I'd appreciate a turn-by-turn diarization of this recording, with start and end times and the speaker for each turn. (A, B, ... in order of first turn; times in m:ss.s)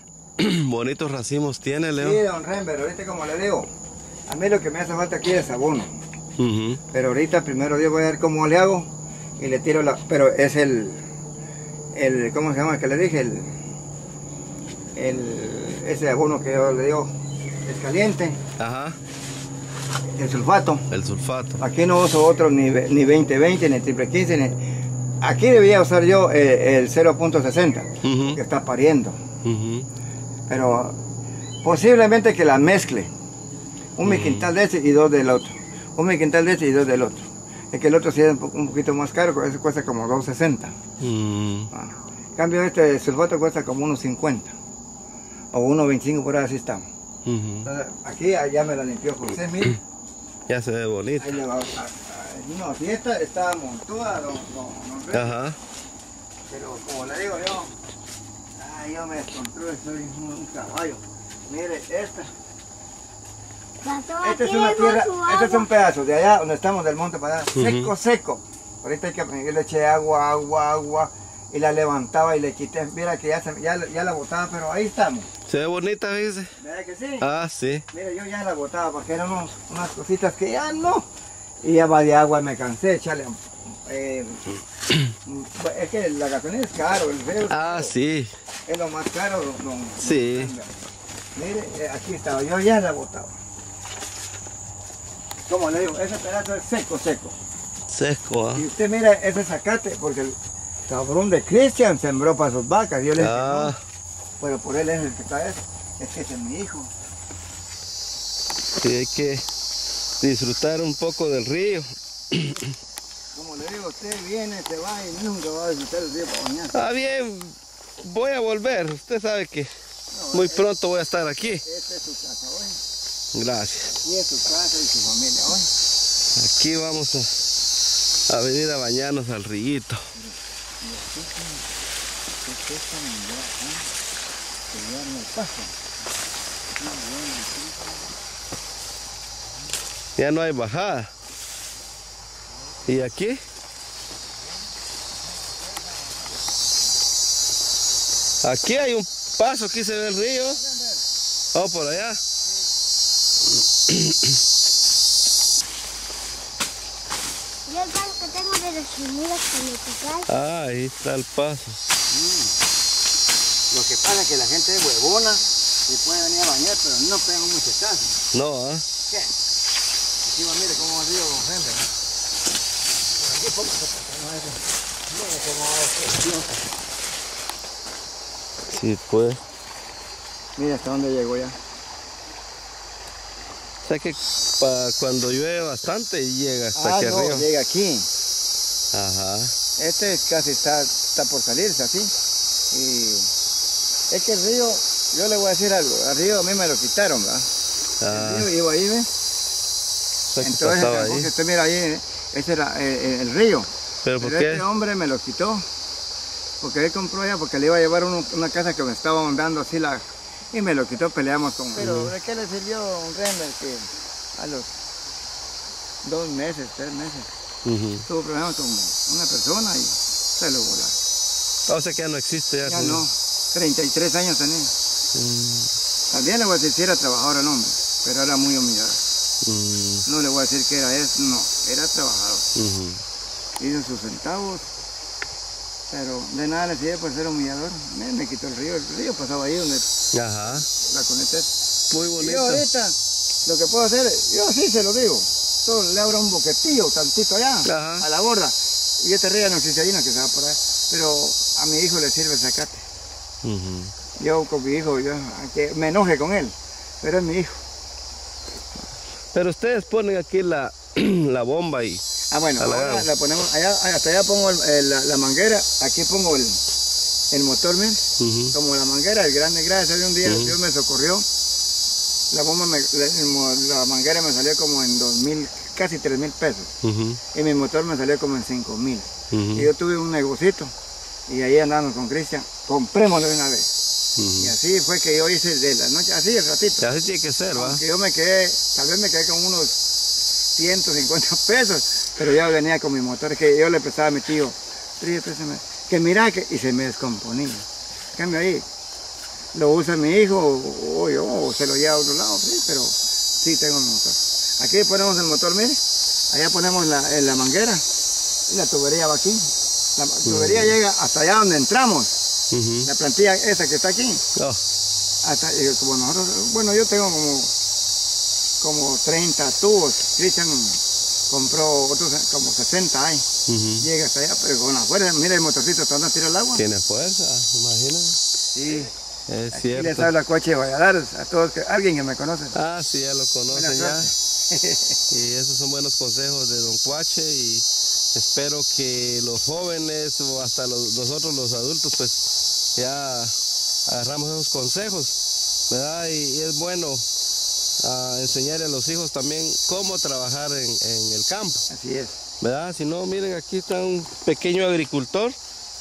0:00.4-0:02.2 A
0:02.0-0:03.7 B
0:04.3-0:05.9 B
0:06.4-0:06.8 A
0:06.9-0:11.0 B
0:11.9-0:13.5 B
0:14.9-0:17.1 B
0:17.6-0:18.4 B
0:18.6-0:19.0 A
0:20.2-0:20.8 B
0:20.9-0:21.6 A
0:21.6-0:24.6 B
0:25.2-0:29.2 B
0:28.0-0:28.4 A
0:29.4-0:29.9 A
0:30.5-0:31.0 B
0:31.6-0:33.1 B
0:34.0-0:40.8 B
0:34.0-0:34.5 A
0:41.0-0:41.7 A
0:41.7-0:44.5 B
0:45.5-0:46.8 B
0:47.2-0:47.7 A
0:47.6-0:49.8 B
0:50.5-0:51.4 A
0:51.2-0:55.3 B
0:55.1-0:55.6 A
0:56.5-0:57.7 B
0:58.6-1:02.3 B
1:03.8-1:05.7 C
1:04.2-1:15.3 B
1:07.5-1:07.9 A
1:15.5-1:16.5 A
1:16.6-1:17.2 B
1:17.2-1:17.8 A
1:17.9-1:21.0 B
1:21.6-1:24.4 B
1:25.2-1:27.9 B
1:27.5-1:28.3 A
1:28.6-1:30.8 B
1:30.0-1:30.5 A
1:31.3-1:33.4 B
1:35.4-1:37.4 B
1:37.9-1:38.6 A
1:38.5-1:40.4 B
1:40.9-1:43.7 B
1:43.2-1:43.8 A
1:44.4-1:46.9 B
1:48.8-1:49.4 A
1:50.2-1:52.6 A
1:53.3-1:56.8 B
1:56.7-1:59.7 A
2:00.1-2:00.7 B
2:00.3-2:01.6 A
2:01.4-2:02.8 B
2:03.3-2:03.9 A
2:03.9-2:05.7 B
2:06.3-2:07.5 A
2:08.3-2:10.0 A
2:10.1-2:11.7 B
2:12.4-2:13.9 B
2:14.7-2:15.8 B
2:16.8-2:18.0 B
2:20.2-2:21.1 A
2:22.9-2:23.4 A
2:28.4-2:30.6 A
2:30.6-2:30.9 B
2:31.5-2:32.2 A
2:33.9-2:34.3 A
2:37.6-2:40.3 C
2:40.3-2:41.8 A
2:42.1-2:42.6 B
2:43.7-2:48.2 B
2:48.3-2:48.8 A
2:49.1-2:49.3 B
2:50.2-2:51.9 B
2:53.2-2:56.7 B
2:58.7-2:59.4 A
3:00.6-3:01.6 B
3:03.8-3:07.5 A
3:06.7-3:08.1 B
3:08.9-3:09.5 A
3:09.8-3:12.1 B
3:12.7-3:13.3 B
3:14.1-3:17.5 B
3:18.0-3:18.5 A
3:18.1-3:19.1 B
3:20.3-3:21.3 A
3:20.4-3:23.7 B
3:24.0-3:24.6 A
3:24.2-3:25.6 B
3:26.6-3:34.7 B
3:31.8-3:32.1 A
3:36.0-3:37.3 B
3:37.6-3:38.0 A
3:38.0-3:41.0 B
3:41.7-3:43.0 A
3:42.6-3:44.7 B
3:45.1-3:45.7 A
3:46.1-3:49.0 B
3:49.4-3:50.0 A
3:50.0-3:52.5 B
3:52.5-3:53.0 A
3:53.6-3:54.7 B
3:55.9-3:59.9 B
4:00.1-4:00.7 A
4:00.4-4:01.6 B
4:01.9-4:02.6 A
4:02.2-4:12.8 B
4:07.6-4:08.0 A
4:13.4-4:13.9 A
4:14.2-4:17.6 B
4:19.3-4:22.0 A
4:22.3-4:26.6 B
4:22.6-4:23.1 A
4:27.3-4:31.3 B
4:28.2-4:28.5 A
4:30.2-4:30.5 A
4:32.3-4:36.7 B
4:36.8-4:37.2 A
4:37.3-4:40.7 B
4:39.3-4:39.7 A
4:41.3-4:43.7 B
4:44.2-4:44.5 A
4:44.4-4:46.9 B
4:46.8-4:47.8 A
4:47.5-4:49.8 B
4:50.5-4:58.6 B
4:59.5-5:07.8 B
5:08.5-5:12.2 B
5:10.2-5:10.7 A
5:12.5-5:12.9 A
5:12.8-5:14.2 B
5:14.4-5:14.6 A
5:15.2-5:17.5 B
5:18.6-5:23.2 B
5:23.5-5:23.9 A
5:23.8-5:26.6 B
5:26.5-5:28.2 A
5:28.5-5:28.9 B
5:29.3-5:30.1 A
5:29.5-5:32.5 B
5:32.5-5:34.1 A
5:33.5-5:35.0 B
5:35.1-5:43.3 A
5:43.9-5:45.2 A
5:45.7-5:47.0 A
5:47.8-5:51.7 A
5:51.7-5:52.2 B
5:52.4-5:55.4 A